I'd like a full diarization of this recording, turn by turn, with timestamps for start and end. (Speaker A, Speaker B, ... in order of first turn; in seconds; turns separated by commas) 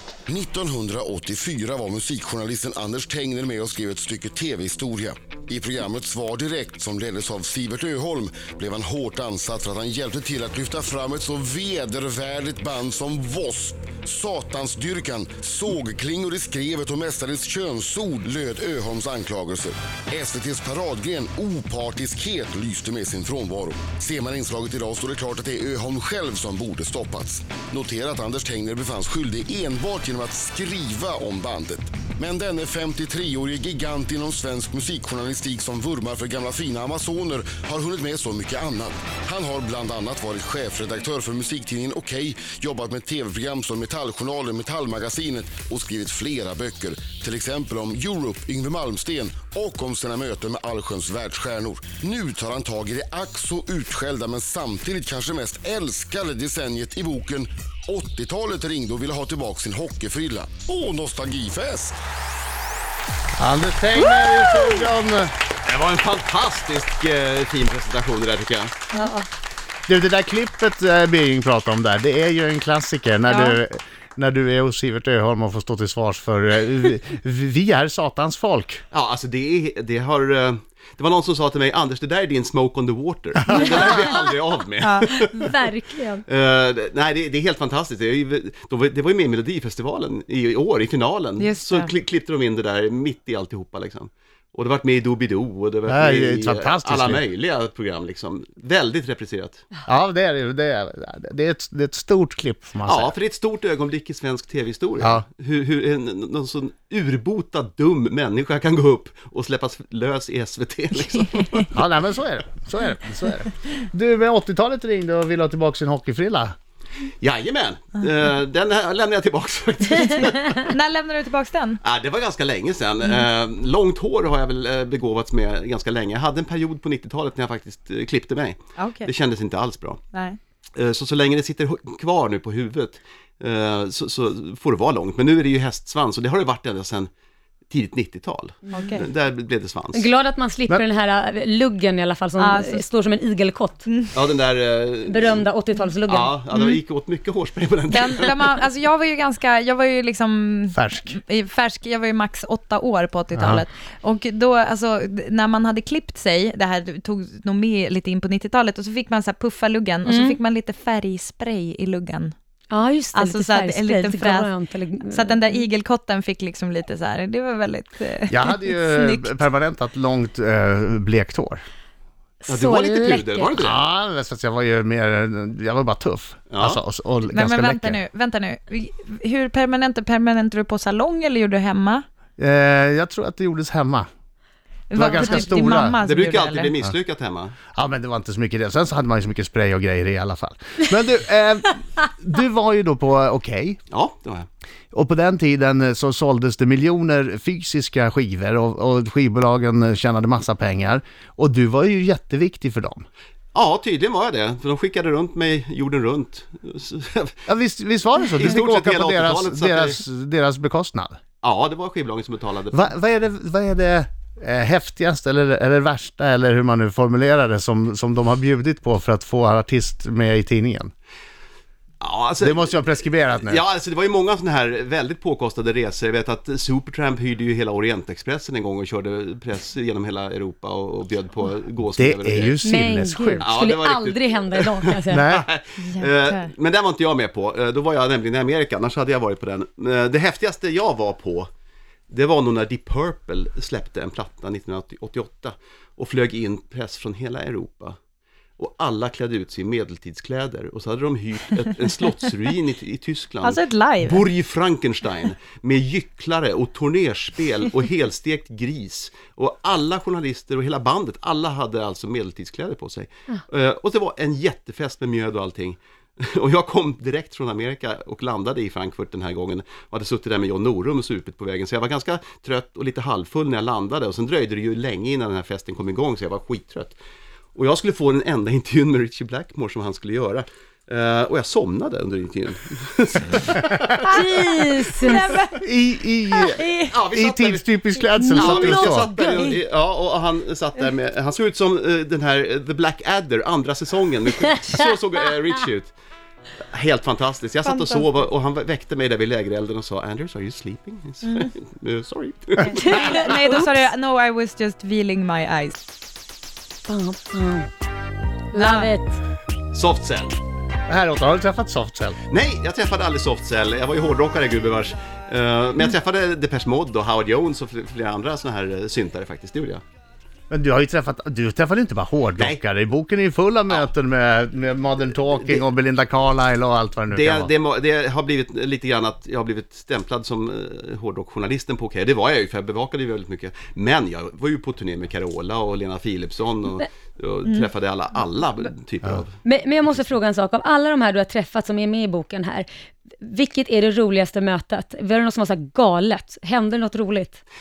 Speaker A: 0.3-62.0, Speaker B: 63.4-65.3, Speaker C: 64.1-64.7, Speaker D: 65.6-68.7, Speaker E: 68.9-69.2, Speaker B: 69.9-78.8, Speaker C: 73.3-73.6, Speaker D: 78.9-85.5, Speaker B: 83.5-83.8, Speaker E: 83.5-84.1, Speaker C: 84.8-85.1, Speaker E: 85.3-86.2, Speaker D: 86.3-99.7, Speaker C: 91.4-91.9, Speaker B: 95.9-97.2, Speaker B: 99.9-103.1, Speaker D: 102.9-111.7, Speaker C: 111.0-111.7, Speaker B: 111.7-116.5, Speaker D: 117.2-120.7, Speaker C: 120.6-121.8, Speaker D: 121.8-130.0, Speaker C: 128.8-129.1, Speaker C: 130.1-130.4, Speaker D: 130.8-137.1, Speaker D: 137.7-140.1, Speaker C: 138.7-139.0, Speaker E: 139.9-143.8, Speaker C: 142.4-142.8, Speaker C: 143.8-144.2, Speaker D: 144.1-145.4, Speaker E: 145.1-146.4, Speaker D: 146.1-148.5, Speaker C: 146.5-146.8, Speaker C: 147.9-162.3, Speaker B: 150.8-151.2, Speaker B: 153.3-153.7, Speaker E: 160.1-160.4, Speaker E: 162.7-165.6, Speaker C: 163.1-164.5, Speaker C: 165.1-169.3, Speaker B: 168.3-171.6, Speaker E: 172.4-173.5, Speaker D: 172.5-173.8, Speaker B: 173.6-178.0, Speaker D: 176.5-176.8, Speaker C: 177.3-182.0, Speaker B: 182.4-184.1, Speaker C: 184.9-186.8, Speaker B: 184.9-186.0, Speaker D: 186.0-187.5, Speaker B: 187.8-193.8, Speaker D: 193.9-194.5, Speaker B: 194.9-203.1, Speaker D: 203.5-207.4, Speaker B: 207.5-211.2, Speaker D: 208.3-210.0, Speaker D: 211.4-212.9, Speaker B: 212.7-220.9, Speaker D: 222.0-232.6, Speaker B: 222.4-223.6, Speaker B: 232.0-233.5, Speaker E: 232.6-235.2, Speaker D: 233.4-241.5, Speaker B: 235.1-235.4, Speaker C: 235.8-236.5, Speaker D: 242.1-248.0, Speaker D: 248.6-277.0, Speaker C: 253.4-254.3, Speaker D: 277.6-284.2, Speaker E: 284.0-285.2, Speaker C: 285.0-285.6, Speaker B: 285.6-289.1, Speaker C: 286.3-286.9, Speaker D: 286.9-287.7, Speaker E: 288.2-289.6, Speaker D: 288.4-295.9, Speaker D: 296.7-303.6, Speaker C: 297.6-298.1, Speaker C: 301.2-301.5, Speaker C: 302.7-305.8, Speaker E: 302.8-303.8, Speaker E: 306.9-307.7, Speaker E: 308.5-309.2, Speaker C: 308.5-308.9, Speaker D: 309.7-310.4, Speaker B: 310.9-312.2, Speaker D: 312.3-319.8, Speaker B: 320.5-327.5, Speaker D: 322.4-322.6, Speaker D: 325.2-325.7, Speaker D: 327.1-339.4, Speaker E: 339.4-342.7, Speaker E: 343.2-347.4